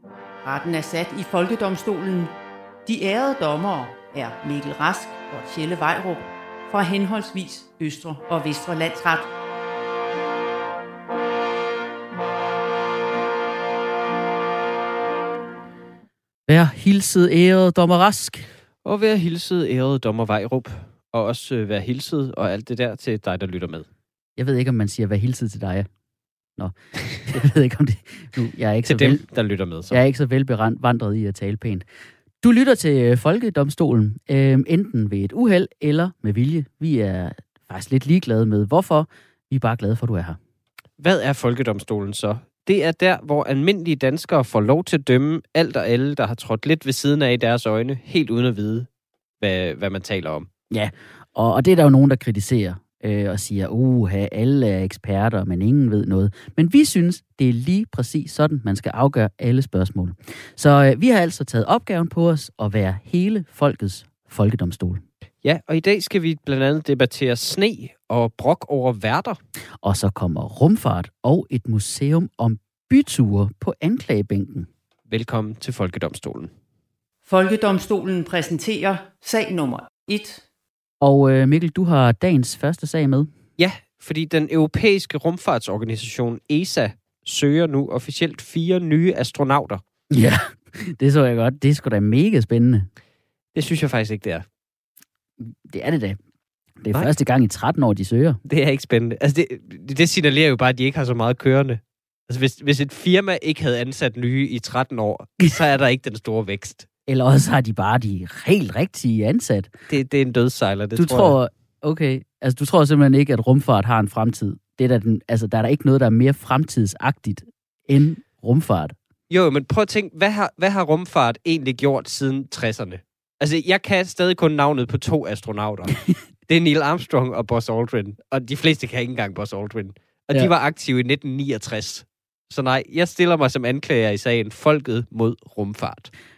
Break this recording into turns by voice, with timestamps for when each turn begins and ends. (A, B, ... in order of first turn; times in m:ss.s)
0:00.4-0:09.3 A
0:16.5-0:18.5 B
0:18.8-0:23.9 C
0:24.4-0:25.9 B
0:26.6-0:29.2 B
0:28.8-0:30.0 C
0:29.9-0:31.8 B
0:32.4-0:40.4 B
0:41.0-0:48.9 C
0:49.4-0:50.5 C
0:50.7-1:05.0 B
1:05.4-1:09.4 C
1:09.8-1:14.7 B
1:15.1-1:16.5 C
1:17.2-1:20.4 A
1:21.0-1:23.3 B
1:23.6-1:29.8 C
1:30.1-1:32.9 B
1:33.5-1:34.4 C
1:35.4-1:36.2 B
1:36.8-1:38.4 B
1:38.4-1:46.9 C
1:47.0-1:49.7 B
1:49.9-1:51.4 C
1:51.0-1:58.9 B
1:59.3-2:16.1 C